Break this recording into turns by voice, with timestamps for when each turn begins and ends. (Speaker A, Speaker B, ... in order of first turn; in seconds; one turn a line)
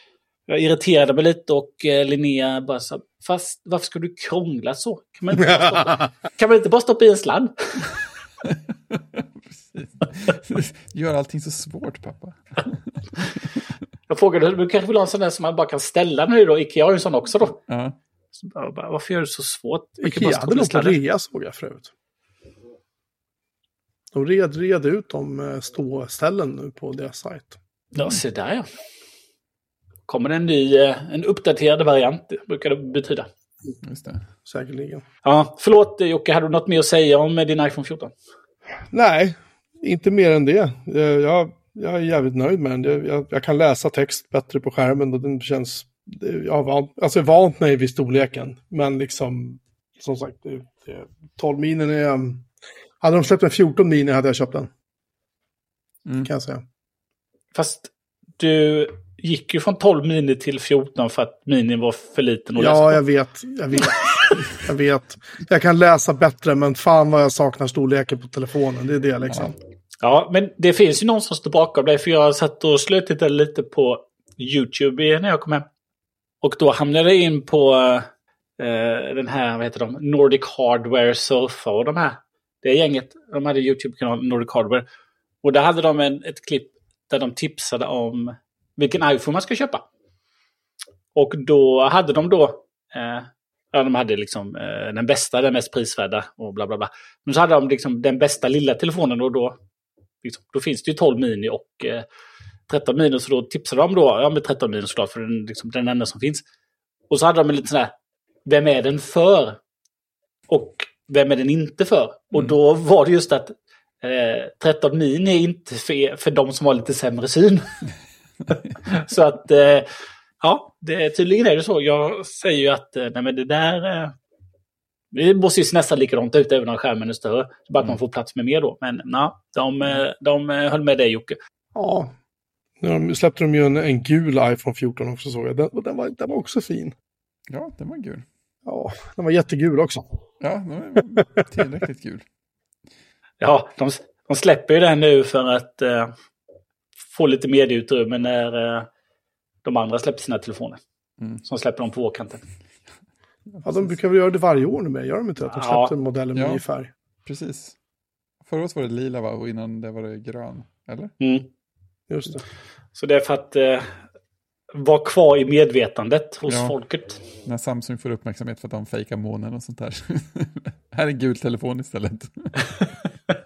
Speaker A: 0.5-7.8
Speaker B: 8.4-13.0
Speaker A: 14.1-17.6
Speaker B: 17.6-18.0
Speaker A: 18.4-21.0
Speaker C: 20.0-21.9
Speaker C: 24.1-27.6
Speaker A: 27.9-28.6
Speaker A: 30.1-33.3
Speaker B: 33.8-34.2
Speaker C: 34.5-35.0
Speaker A: 35.2-38.1
Speaker C: 38.9-52.4
Speaker C: 53.0-54.7
Speaker C: 56.2-56.6
Speaker A: 57.5-63.0
Speaker C: 62.5-69.5
Speaker A: 63.8-64.3
Speaker A: 70.0-75.7
Speaker A: 76.4-84.8
Speaker A: 85.4-89.8
Speaker A: 91.1-99.6
Speaker A: 100.2-102.0
Speaker A: 102.7-106.4
Speaker A: 107.1-107.9
Speaker A: 108.5-109.6
Speaker A: 110.5-117.8
Speaker A: 118.8-119.9
Speaker A: 120.4-124.1
Speaker A: 125.1-131.4
Speaker C: 131.7-132.1
Speaker C: 132.8-136.9
Speaker B: 137.5-138.2
Speaker C: 138.7-140.0
Speaker B: 140.4-142.2
Speaker A: 143.4-146.1
Speaker A: 147.0-148.9
Speaker A: 149.6-150.8
Speaker B: 151.2-151.4
Speaker A: 151.4-152.4
Speaker B: 153.5-153.9
Speaker C: 153.6-156.9
Speaker A: 155.4-155.9
Speaker B: 156.3-156.6
Speaker B: 157.2-157.8
Speaker B: 158.4-161.1
Speaker A: 161.2-161.5
Speaker C: 162.1-162.4
Speaker A: 162.9-163.9
Speaker A: 164.7-167.2
Speaker B: 166.5-166.7
Speaker B: 167.4-172.7